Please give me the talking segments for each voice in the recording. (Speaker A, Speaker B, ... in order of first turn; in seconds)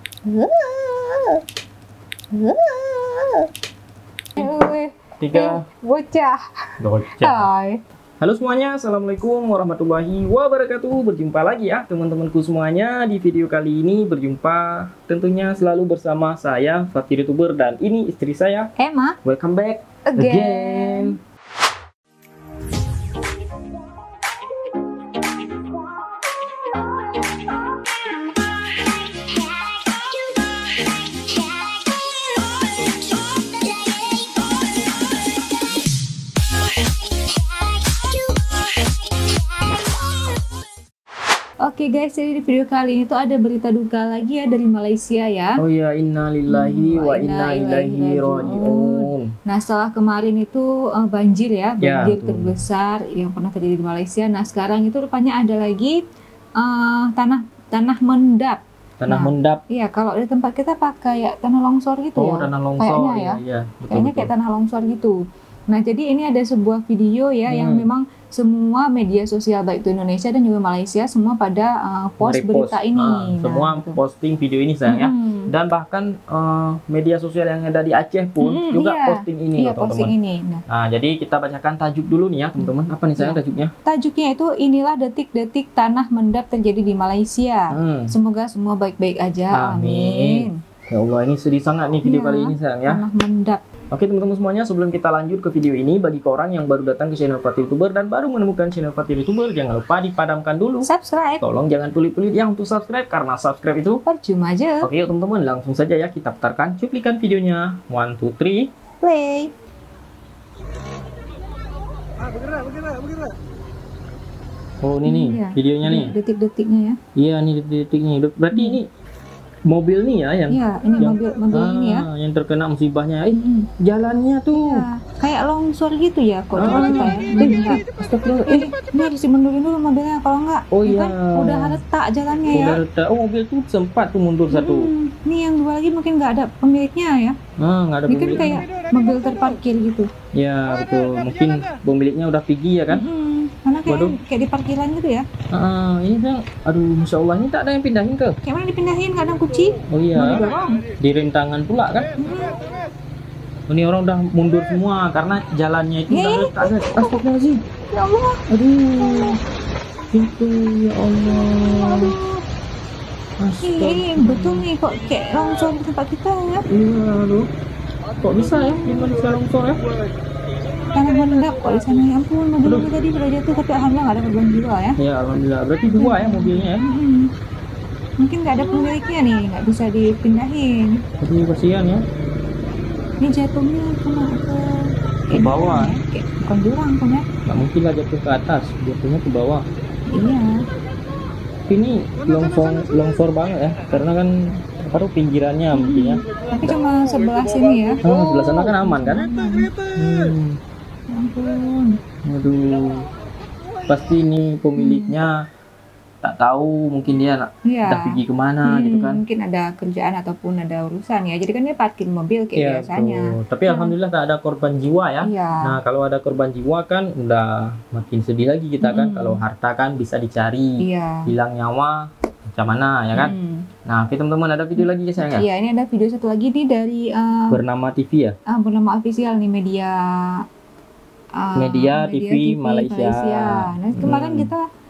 Speaker A: 0.2-1.4, 2.3-3.5, 4.3-6.4, 7.1-7.8, 18.8-19.2, 20.1-21.1, 41.6-45.6, 46.5-56.0, 56.6-63.4, 63.9-65.2, 65.7-74.0, 74.9-75.5, 78.4-80.6, 83.2-90.6, 92.0-93.6, 100.8-101.4, 104.0-104.9, 109.0-109.5, 115.0-117.0, 118.5-118.8, 120.5-122.1, 123.3-123.7, 124.5-127.9, 128.4-132.8, 134.5-137.4, 138.1-140.1, 142.9-145.2, 148.4-150.8, 152.2-152.7, 156.1-157.2, 157.9-158.4, 161.8-162.4, 163.6-166.6, 170.9-175.0, 176.0-177.3, 178.2-181.0, 183.2-187.2, 190.1-190.6, 195.7-198.0, 198.8-199.8, 201.1-202.0, 204.8-205.2, 207.7-213.9, 215.2-215.8, 218.8-219.4, 220.8-221.3, 223.2-223.7, 225.2-227.6, 228.5-230.4, 231.4-234.6
Speaker B: 5.2-5.6, 6.8-7.5, 8.2-18.7, 19.2-21.2, 45.6-49.3, 51.8-52.6, 59.0-59.6, 62.2-64.3, 67.5-67.9, 72.2-80.1, 80.7-83.7, 87.7-88.1, 89.5-93.0, 93.9-100.9, 101.4-104.0, 104.8-108.7, 114.8-116.1, 117.2-118.9, 119.7-124.8, 126.5-128.7, 130.7-131.8, 132.5-134.9, 137.6-138.6, 140.3-143.0, 143.9-144.2, 145.5-148.4, 149.9-150.4, 151.0-152.2, 153.7-157.6, 158.5-159.4, 160.1-162.2, 163.4-164.7, 166.7-167.5, 168.2-169.8, 175.0-176.9, 181.2-182.0, 185.3-186.0, 187.4-189.6, 191.7-196.2, 198.0-199.3, 199.9-200.6, 202.2-203.1, 203.9-205.3, 206.2-209.2, 212.6-222.0, 222.5-223.3, 223.8-225.4, 227.5-228.3, 231.6-234.5